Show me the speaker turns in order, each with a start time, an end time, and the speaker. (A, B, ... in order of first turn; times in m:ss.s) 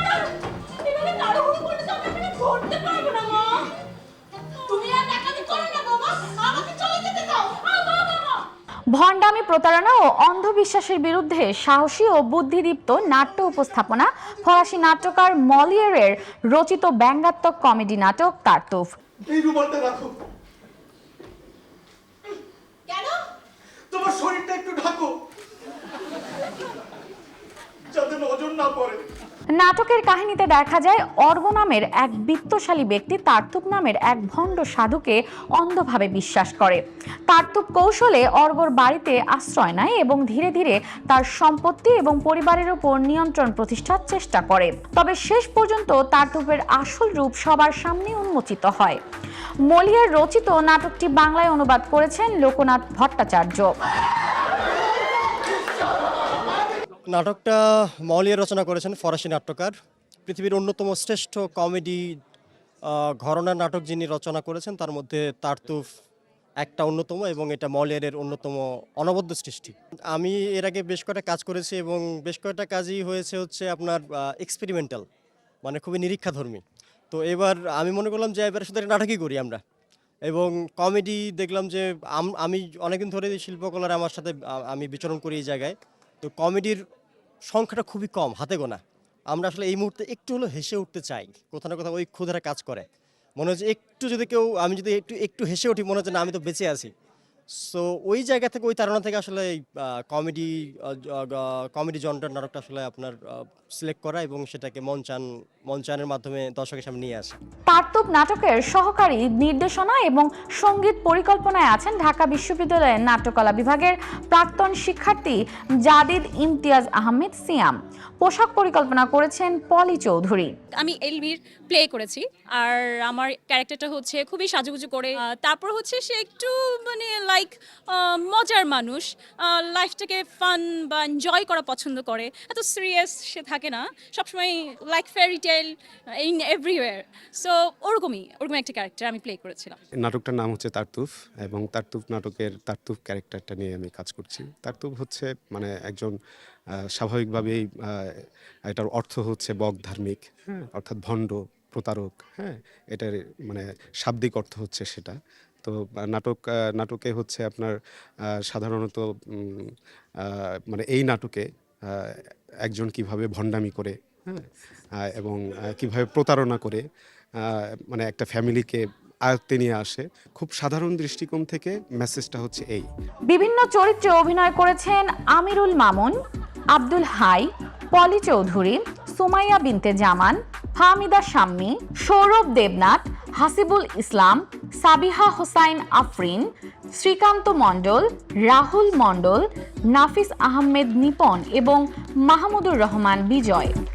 0:00.8-0:03.7 A
0:04.7-0:08.5 A
0:08.9-0:18.9 B
0:19.3-0:20.1 C
0:22.9-0:23.2 A
0:23.9-0:25.1 C
0:28.0-0:29.0 C
0:29.6-0:49.0 B
0:49.7-0:53.7 B
0:57.1-0:59.7 D
1:00.2-1:02.0 D
1:02.9-1:05.8 D
1:06.6-1:15.0 D
1:15.6-1:19.6 D
1:20.3-1:26.8 D
1:27.5-1:32.9 D
1:33.4-1:36.9 D
1:37.6-1:47.4 D
1:47.7-2:00.5 B
2:00.8-2:19.8 A
2:20.0-2:26.1 E
2:26.9-2:37.7 E
2:38.4-2:44.5 E
2:45.0-2:46.8 E
2:47.4-2:52.9 E
2:53.3-2:56.2 B
2:56.7-3:13.7 B